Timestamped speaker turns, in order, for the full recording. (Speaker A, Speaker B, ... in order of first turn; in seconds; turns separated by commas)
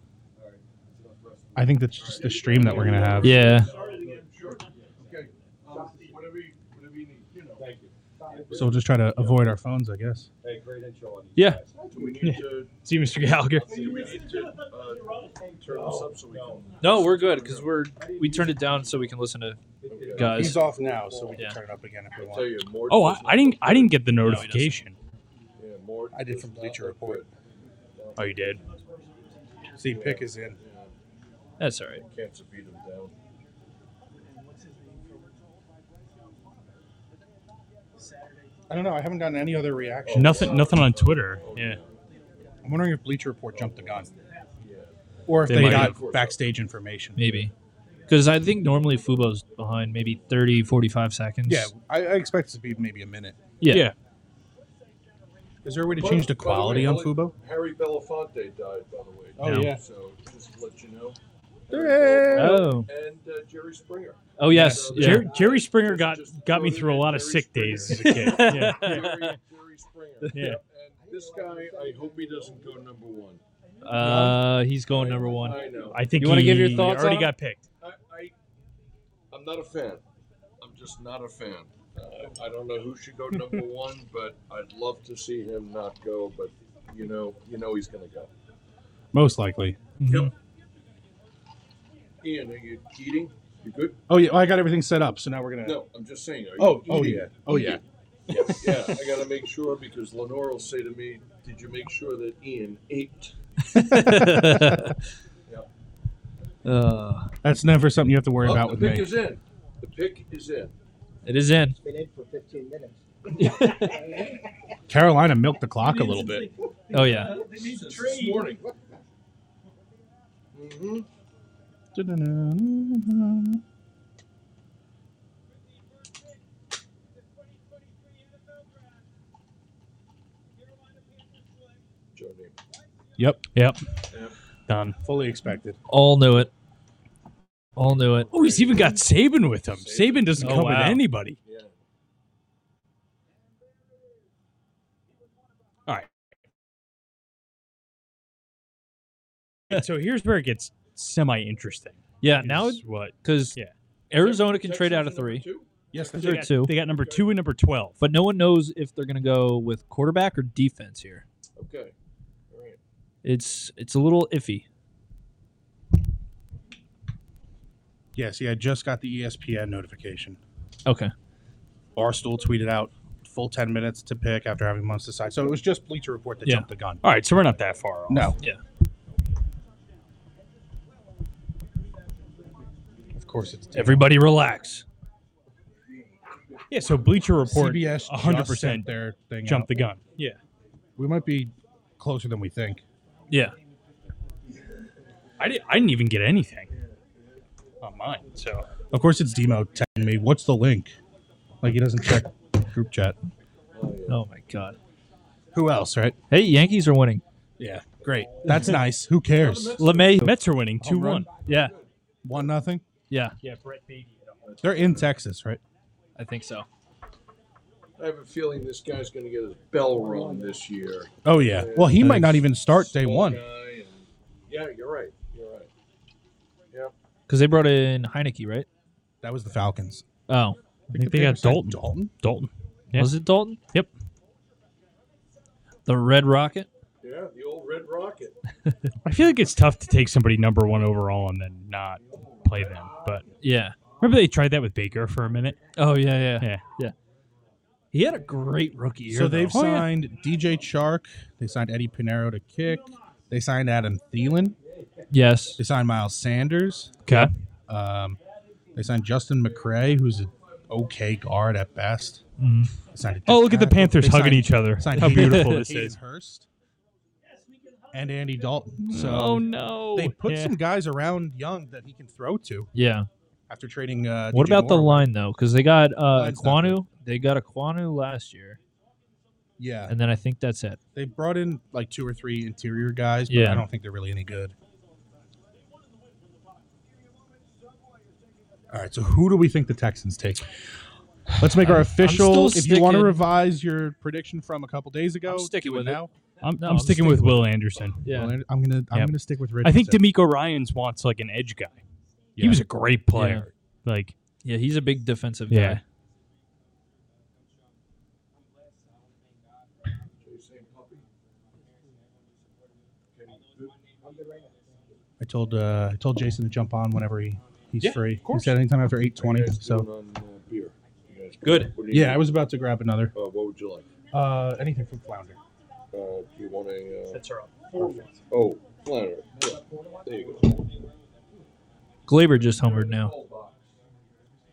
Speaker A: 0.4-6.1, Speaker B: 1.6-3.5, Speaker C: 2.0-7.7, Speaker D: 3.2-3.7, Speaker A: 7.6-9.5, Speaker B: 8.5-10.3, Speaker A: 10.4-12.1, Speaker D: 11.3-11.6, Speaker C: 11.9-12.7, Speaker E: 12.2-13.7, Speaker C: 13.6-17.7, Speaker A: 13.7-14.5, Speaker A: 15.7-17.2, Speaker D: 16.8-19.6, Speaker A: 19.8-20.2, Speaker C: 19.9-21.4, Speaker D: 20.1-20.6, Speaker B: 20.2-22.6, Speaker C: 22.1-24.1, Speaker E: 22.9-25.0, Speaker D: 24.2-24.8, Speaker C: 25.6-27.3, Speaker B: 26.1-27.3, Speaker C: 27.9-28.5, Speaker E: 28.2-28.6, Speaker B: 29.8-30.6, Speaker C: 29.8-30.9, Speaker D: 31.6-32.0, Speaker C: 32.0-33.1, Speaker B: 38.7-40.8, Speaker C: 40.0-42.1, Speaker E: 40.1-41.8, Speaker B: 42.6-44.1, Speaker C: 43.5-46.4, Speaker B: 45.3-47.5, Speaker E: 45.5-46.0, Speaker D: 47.2-47.5, Speaker D: 48.1-51.7, Speaker B: 51.5-53.4, Speaker D: 53.6-53.9, Speaker E: 53.7-54.0, Speaker B: 55.6-57.4, Speaker C: 55.9-73.4, Speaker B: 59.4-59.8, Speaker E: 59.4-59.7, Speaker B: 61.7-62.7, Speaker D: 62.3-62.9, Speaker D: 64.4-65.3, Speaker B: 64.5-65.1, Speaker E: 65.0-69.2, Speaker D: 67.9-69.3, Speaker E: 70.3-70.6, Speaker F: 71.0-72.5, Speaker D: 73.8-77.3, Speaker B: 74.0-74.5, Speaker C: 74.0-74.3, Speaker C: 74.9-76.9, Speaker E: 75.9-77.7, Speaker C: 77.8-78.3, Speaker C: 79.3-80.0, Speaker C: 80.6-88.3, Speaker B: 89.1-89.8, Speaker D: 90.0-90.3, Speaker C: 90.1-90.3, Speaker C: 92.2-94.0, Speaker B: 94.1-95.8, Speaker C: 95.6-103.4, Speaker B: 96.6-97.8, Speaker B: 98.3-98.9, Speaker D: 103.7-105.0, Speaker B: 103.9-104.9, Speaker D: 106.7-107.3, Speaker B: 107.4-109.2, Speaker C: 108.4-110.8, Speaker D: 111.2-111.8, Speaker F: 111.8-114.4, Speaker D: 113.4-114.0, Speaker B: 114.9-116.5, Speaker C: 116.0-118.7, Speaker D: 116.9-117.4, Speaker C: 120.5-121.1, Speaker B: 121.9-123.6, Speaker C: 132.2-132.6, Speaker B: 133.2-133.4, Speaker E: 133.5-133.8, Speaker C: 134.1-134.4, Speaker E: 134.7-135.0, Speaker B: 135.0-135.8, Speaker D: 135.9-136.5, Speaker D: 137.8-138.3, Speaker C: 138.3-139.0, Speaker E: 138.3-141.4, Speaker C: 139.7-140.7, Speaker D: 140.4-141.0, Speaker C: 141.4-141.7, Speaker E: 149.7-153.7, Speaker D: 152.2-153.6, Speaker D: 154.1-155.5, Speaker C: 154.1-157.3, Speaker B: 155.9-156.6, Speaker E: 156.2-158.0, Speaker D: 156.2-156.8, Speaker D: 158.0-161.2, Speaker C: 161.6-161.9, Speaker C: 162.5-162.8, Speaker D: 163.2-164.7, Speaker B: 168.2-170.4, Speaker D: 170.9-171.1, Speaker B: 172.0-177.0, Speaker E: 177.0-178.4, Speaker B: 178.1-178.4, Speaker B: 183.2-184.2, Speaker D: 183.7-184.8, Speaker E: 186.7-188.9, Speaker B: 187.4-189.9, Speaker E: 189.4-190.4, Speaker B: 191.0-192.8, Speaker D: 193.3-193.6, Speaker E: 195.4-196.7, Speaker E: 197.8-198.7, Speaker B: 198.9-201.0, Speaker B: 201.6-203.2, Speaker C: 203.7-204.2, Speaker D: 204.1-204.8, Speaker B: 205.5-206.2, Speaker D: 206.3-207.2, Speaker B: 207.6-209.9, Speaker C: 209.3-210.2, Speaker D: 209.8-210.4, Speaker E: 210.2-211.3, Speaker B: 210.8-211.3, Speaker D: 211.5-211.7, Speaker C: 211.5-211.9, Speaker B: 212.2-212.8, Speaker D: 213.1-213.4, Speaker G: 213.4-214.5, Speaker C: 214.4-215.0, Speaker B: 214.6-215.6, Speaker D: 216.2-216.7, Speaker C: 218.0-225.7, Speaker B: 221.2-223.4, Speaker D: 227.3-228.7, Speaker B: 229.2-230.1, Speaker D: 230.3-230.6, Speaker B: 230.9-232.1, Speaker E: 230.9-233.1, Speaker D: 232.9-233.6, Speaker D: 235.9-236.7, Speaker C: 237.0-238.4, Speaker E: 239.0-243.2, Speaker C: 242.1-242.7, Speaker D: 243.4-243.8, Speaker E: 244.0-245.6, Speaker D: 245.8-246.9, Speaker D: 247.9-249.6, Speaker B: 249.1-254.6, Speaker E: 249.5-249.9, Speaker D: 255.1-255.6, Speaker B: 255.6-257.1, Speaker B: 257.7-258.2, Speaker B: 258.8-262.2, Speaker D: 262.4-262.7, Speaker B: 262.8-266.5, Speaker E: 263.3-266.0, Speaker D: 265.0-265.5, Speaker B: 267.9-272.7, Speaker E: 268.9-270.6, Speaker D: 272.8-273.1, Speaker B: 273.5-275.1, Speaker D: 274.3-278.6, Speaker B: 276.1-276.8, Speaker B: 279.6-279.9, Speaker D: 279.9-280.8, Speaker B: 280.9-284.6, Speaker D: 283.3-283.6, Speaker B: 288.7-290.5, Speaker B: 291.4-296.1, Speaker D: 291.6-293.2, Speaker D: 295.3-297.5, Speaker E: 296.4-298.0, Speaker D: 298.0-298.4, Speaker B: 298.1-300.1, Speaker E: 298.9-301.8, Speaker B: 302.4-302.6, Speaker E: 302.4-304.1, Speaker D: 303.1-303.5, Speaker D: 304.4-305.8, Speaker E: 305.5-305.8, Speaker C: 310.2-311.1, Speaker C: 313.1-313.8, Speaker F: 314.0-314.8, Speaker B: 315.2-319.9, Speaker C: 319.2-322.4, Speaker D: 321.4-321.7, Speaker B: 321.9-323.1, Speaker C: 323.1-323.9, Speaker B: 324.1-325.4, Speaker C: 325.9-327.2, Speaker G: 327.1-328.2, Speaker C: 327.8-330.6, Speaker F: 329.6-330.0, Speaker D: 332.1-333.1, Speaker C: 332.4-333.7